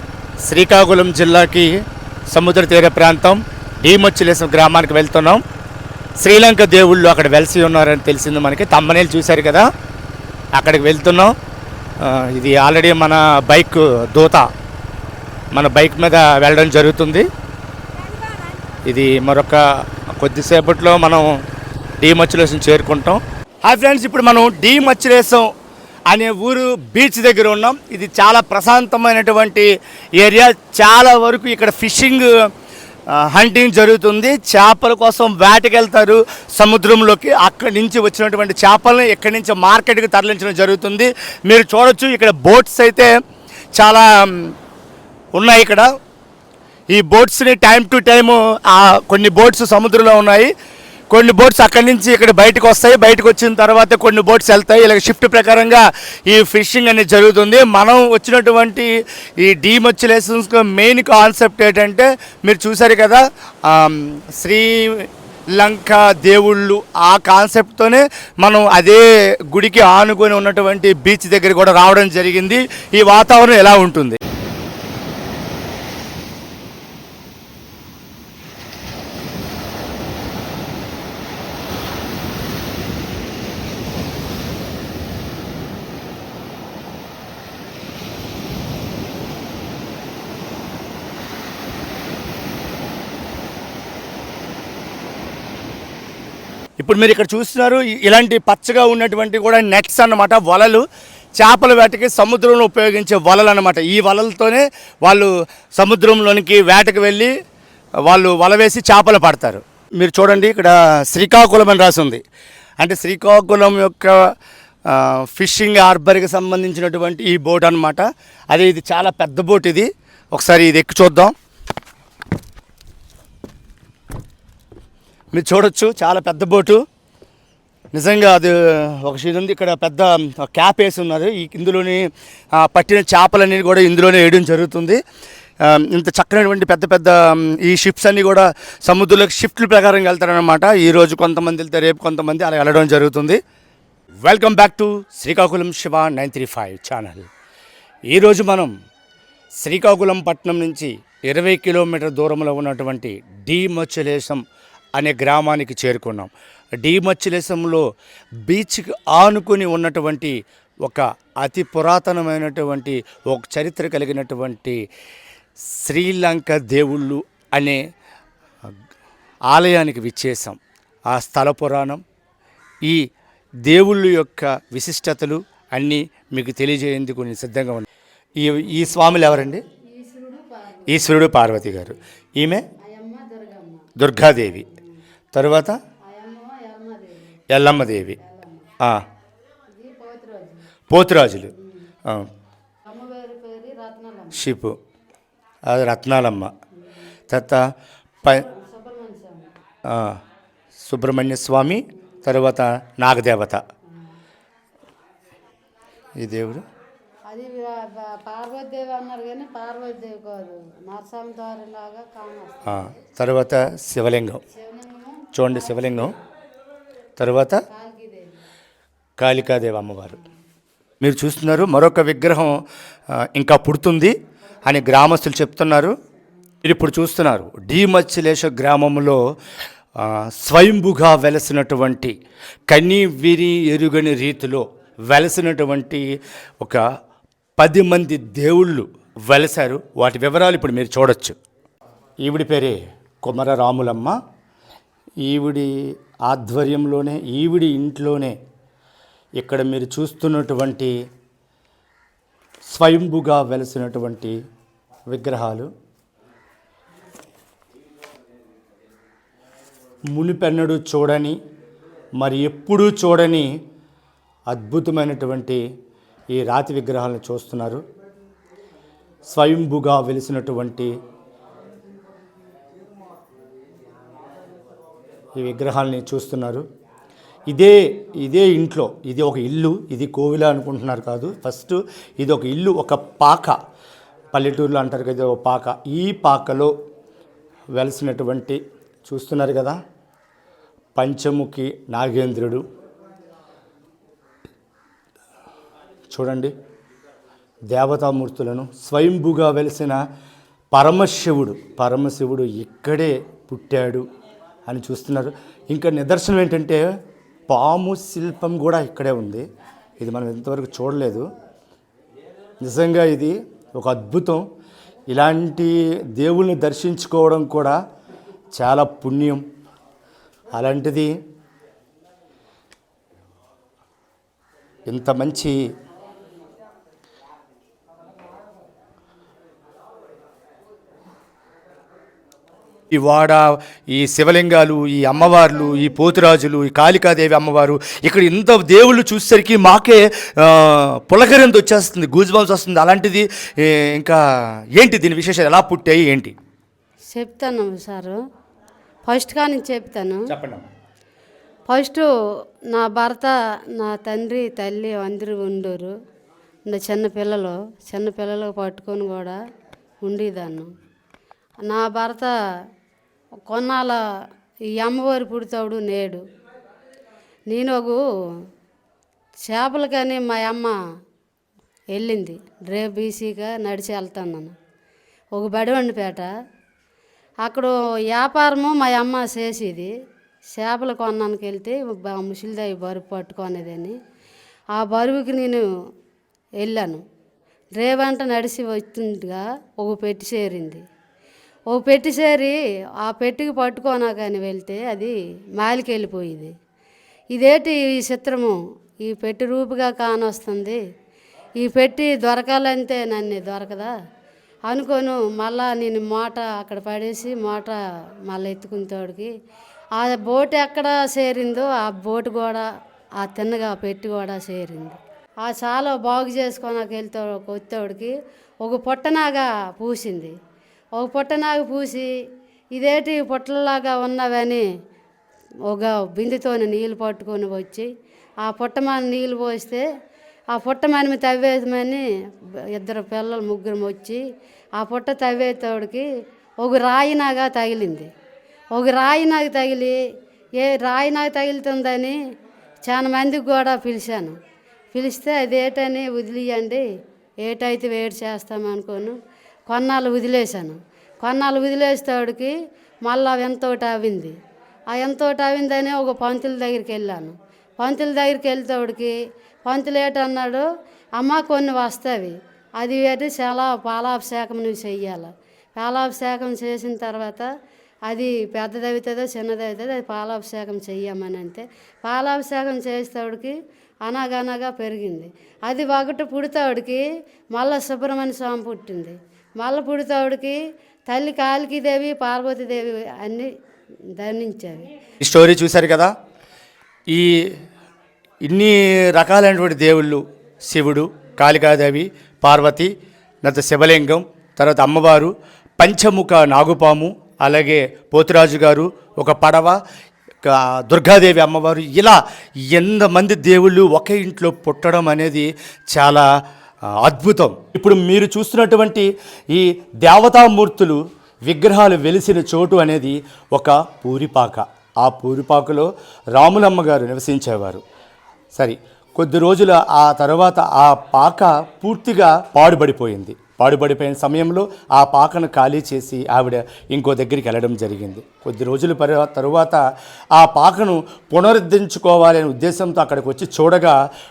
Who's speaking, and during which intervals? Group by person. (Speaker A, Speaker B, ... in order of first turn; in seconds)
Speaker A: 0.4-5.4, 6.2-9.7, 10.6-11.3, 12.0-14.5, 15.5-17.3, 18.9-21.3, 22.0-25.5, 26.1-32.3, 33.1-43.1, 43.8-44.5, 45.4-45.9, 46.9-50.5, 51.1-74.2, 96.8-100.8, 101.4-107.3, 108.0-112.2, 112.8-114.2, 114.9-121.3, 125.3-126.8, 127.9-135.0, 135.6-143.4, 144.2-147.3, 148.1-148.7, 149.6-154.4, 155.0-157.8, 158.5-164.8, 165.6-167.8, 169.5-172.0, 173.6-179.6, 180.9-182.7, 184.0-184.7, 185.3-185.8, 187.5-188.2, 190.9-191.5, 194.3-194.8, 195.7-196.5, 197.3-197.7, 199.8-200.2, 200.8-203.6, 206.2-206.6, 212.7-214.4, 215.3-216.1, 217.2-217.6, 219.2-220.2, 221.0-222.6, 223.1-224.2, 224.7-225.9, 226.6-229.2, 230.0-232.2, 232.7-236.8, 237.6-241.4, 242.2-244.2, 245.2-248.4, 249.4-250.9, 252.7-254.4, 255.1-255.7, 260.1-261.4, 262.2-263.5, 264.5-265.6, 266.3-267.8, 269.3-270.9, 275.4-276.6, 277.5-283.6, 284.3-286.7, 287.7-289.8, 291.0-292.6, 296.1-296.5, 297.7-300.0, 300.7-304.1, 304.7-306.9, 307.5-309.4, 310.0-311.3, 312.6-314.4, 315.1-317.8, 318.5-319.4, 320.5-321.1, 324.9-325.6, 332.9-344.2, 344.8-346.3, 350.3-350.6, 485.2-486.1, 487.1-487.5, 488.4-499.8, 500.4-502.2, 502.7-506.3, 506.9-517.8, 518.5-529.8, 530.3-534.0
Speaker B: 179.9-181.0, 182.8-183.9, 186.1-187.4, 188.2-188.7, 189.7-190.6, 191.6-191.8, 192.9-194.4, 198.3-199.5, 207.3-212.9, 214.5-216.1, 217.7-218.4, 347.1-348.2, 349.1-350.2, 351.7-352.1, 352.7-355.9, 356.7-359.4, 360.0-360.7, 361.7-362.3, 363.5-364.0, 364.8-366.2, 367.5-368.0, 369.5-370.8, 371.9-374.5, 375.4-376.3, 377.4-379.9, 380.6-384.0, 384.8-385.7, 386.6-387.0, 387.8-390.8, 391.7-396.5, 397.3-400.8, 401.6-403.9, 404.7-409.3, 410.0-412.7, 413.2-420.3, 421.0-422.1, 422.8-424.6, 425.7-427.9, 428.4-429.8, 430.5-434.2, 434.8-436.1, 436.6-438.1, 438.8-440.0, 440.6-442.2, 442.9-444.3, 444.9-446.8, 447.4-449.2, 449.7-452.5, 453.1-454.4, 454.9-459.1, 459.7-460.6, 461.2-467.5, 468.1-473.6, 474.1-483.5, 484.2-484.9